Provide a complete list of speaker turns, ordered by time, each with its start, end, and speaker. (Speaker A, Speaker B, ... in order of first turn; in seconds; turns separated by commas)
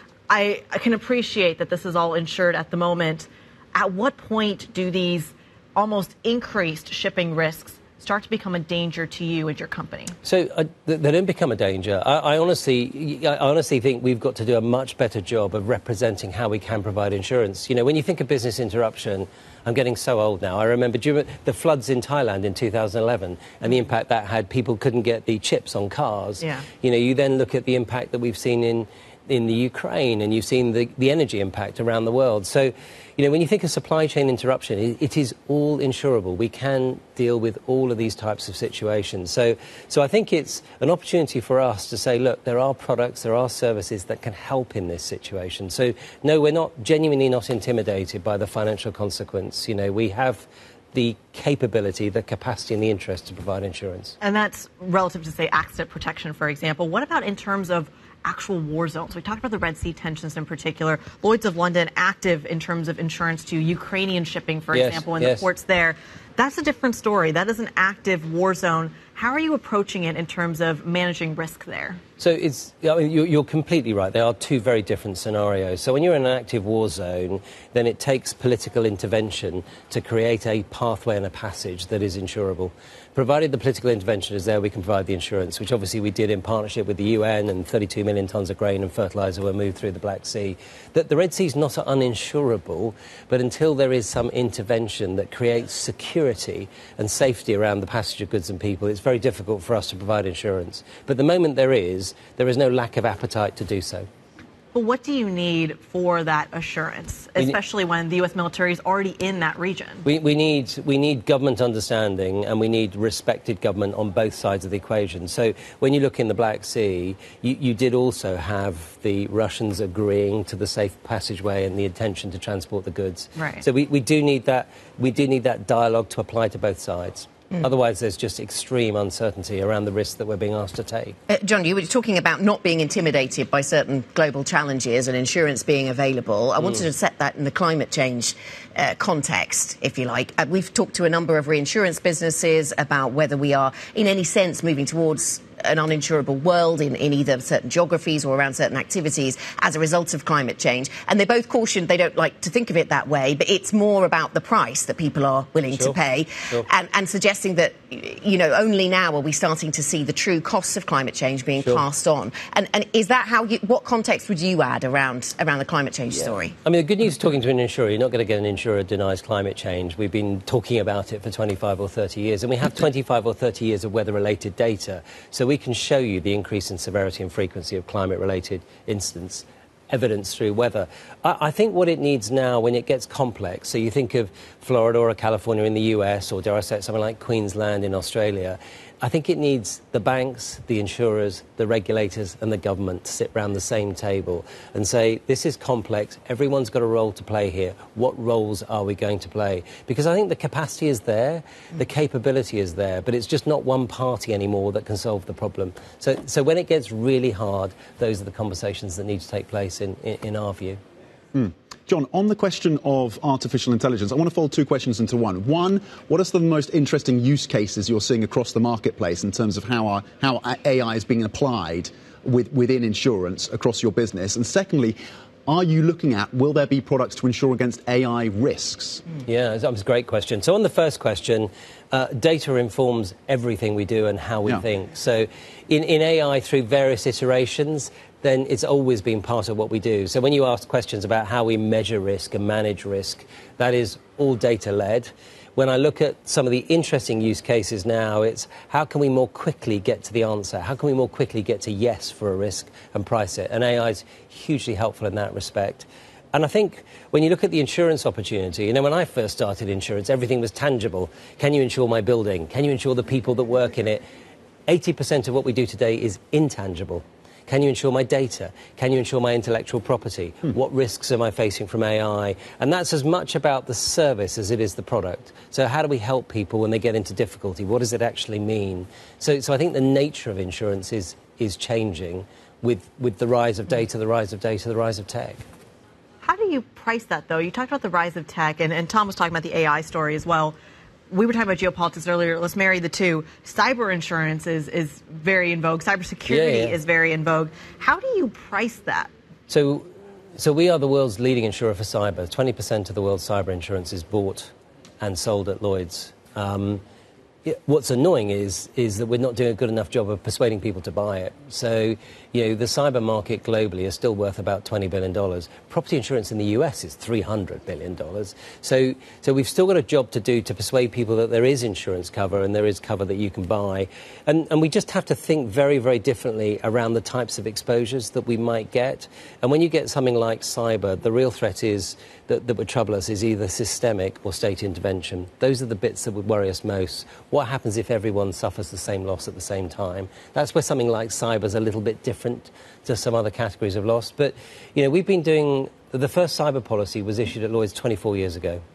Speaker A: 0.3-10.2, Speaker B: 10.2-54.1, Speaker A: 26.4-26.7, Speaker A: 54.2-72.0, Speaker B: 64.7-65.5, Speaker B: 72.2-104.1, Speaker A: 104.7-110.0, Speaker B: 110.0-131.2, Speaker A: 123.3-123.6, Speaker C: 131.3-166.6, Speaker B: 155.7-156.7, Speaker B: 161.6-161.9, Speaker B: 166.1-210.8, Speaker D: 211.3-229.0, Speaker B: 229.2-264.0, Speaker B: 264.7-285.4, Speaker A: 286.2-290.6, Speaker A: 291.1-299.1, Speaker B: 296.3-296.8, Speaker B: 299.5-306.8, Speaker B: 307.4-348.6